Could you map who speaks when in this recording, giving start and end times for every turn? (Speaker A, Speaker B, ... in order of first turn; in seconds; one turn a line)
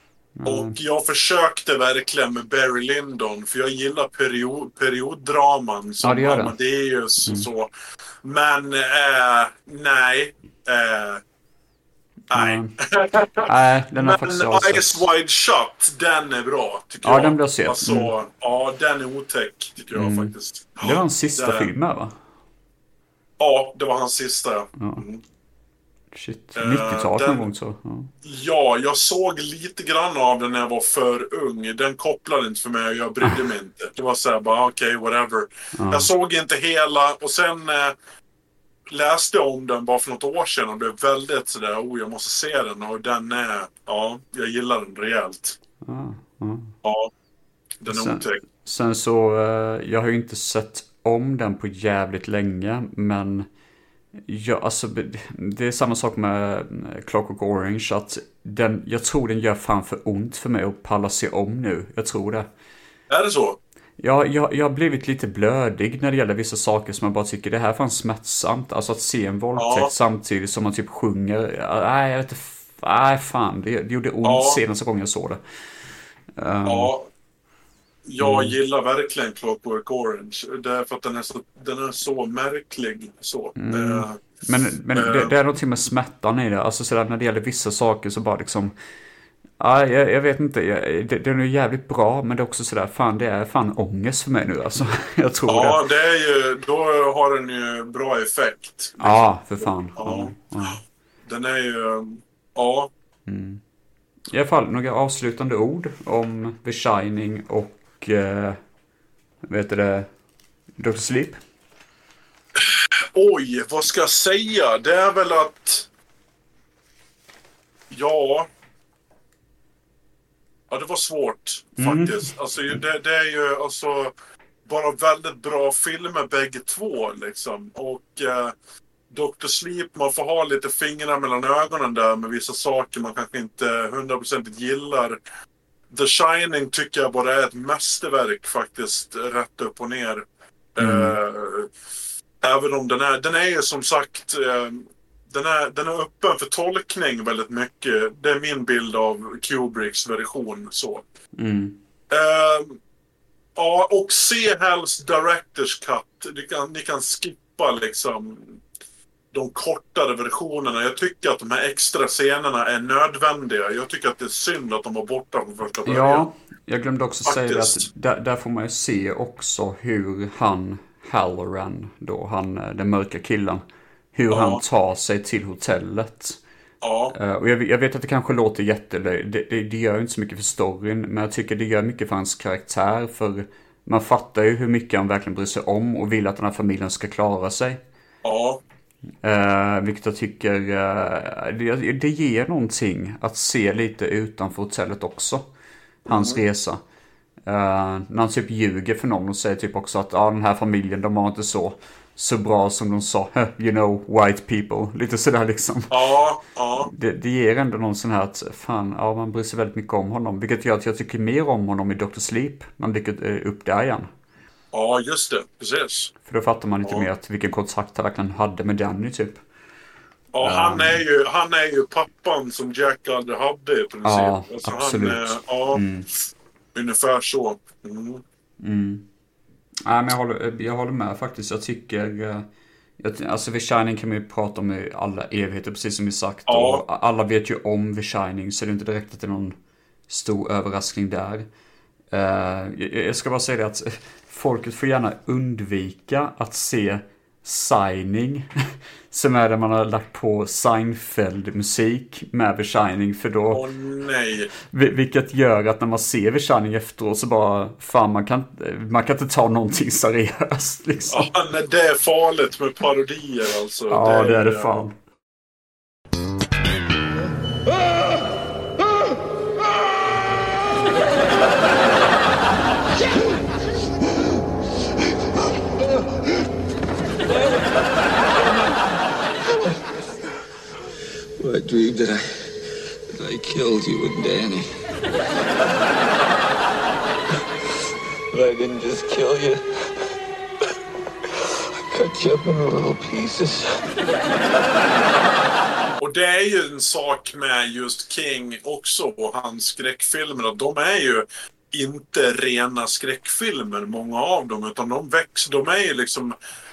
Speaker A: 0.4-0.8
Speaker B: 0.4-7.7
Speaker A: 6.0-6.5
Speaker B: 8.2-11.2
Speaker A: 12.3-12.7
Speaker B: 12.3-13.5
Speaker A: 13.4-15.1
Speaker B: 14.0-21.7
Speaker A: 17.0-18.1
Speaker A: 19.9-22.1
Speaker B: 23.4-25.2
Speaker A: 24.8-25.0
Speaker A: 26.1-28.1
Speaker B: 26.6-27.5
Speaker B: 28.2-37.9
Speaker A: 35.7-36.1
Speaker B: 38.9-45.6
Speaker A: 45.8-46.7
Speaker B: 46.8-47.1
Speaker B: 47.8-48.4
Speaker A: 47.9-53.5
Speaker A: 54.1-62.5
Speaker B: 63.1-63.6
Speaker A: 64.0-75.4
Speaker B: 69.5-69.9
Speaker B: 74.2-74.6
Speaker A: 76.4-76.9
Speaker B: 76.6-77.1
Speaker B: 78.1-84.2
Speaker A: 78.2-78.5
Speaker A: 83.6-88.7
Speaker B: 84.9-85.3
Speaker A: 89.6-95.8
Speaker B: 95.5-102.9
Speaker A: 99.0-100.8
Speaker A: 103.3-103.6
Speaker A: 104.3-108.6
Speaker A: 109.4-110.1
Speaker A: 110.8-111.4
Speaker B: 112.6-115.9
Speaker B: 117.9-118.5
Speaker B: 120.7-124.1
Speaker A: 121.8-122.8
Speaker B: 124.7-128.5
Speaker B: 129.1-135.2
Speaker B: 135.9-140.2
Speaker B: 140.8-141.7
Speaker A: 140.8-141.2
Speaker B: 142.4-151.0
Speaker A: 151.3-151.8
Speaker B: 152.1-152.8
Speaker B: 153.6-158.6
Speaker B: 159.3-166.3
Speaker A: 165.8-176.4
Speaker B: 167.2-167.8
Speaker B: 174.3-174.6
Speaker B: 176.8-177.1
Speaker A: 177.1-187.8
Speaker B: 188.2-188.6
Speaker A: 189.2-195.5
Speaker B: 196.1-196.4
Speaker A: 196.1-196.8
Speaker A: 197.4-206.0
Speaker B: 205.9-206.9
Speaker A: 206.8-214.1
Speaker B: 214.7-216.1
Speaker A: 216.2-219.4
Speaker B: 220.3-225.8
Speaker A: 220.4-221.0
Speaker A: 224.0-226.1
Speaker B: 226.7-228.2
Speaker A: 228.6-229.1
Speaker A: 229.8-232.5
Speaker A: 233.0-239.6
Speaker B: 236.5-236.8
Speaker A: 240.1-241.4
Speaker A: 242.1-248.5
Speaker A: 249.1-253.7
Speaker B: 253.5-254.5
Speaker A: 254.6-261.3
Speaker B: 261.1-264.8
Speaker A: 263.9-264.9
Speaker C: 281.4-282.6
Speaker C: 283.1-284.8
Speaker C: 288.3-289.6
Speaker C: 291.9-293.8
Speaker B: 296.0-306.3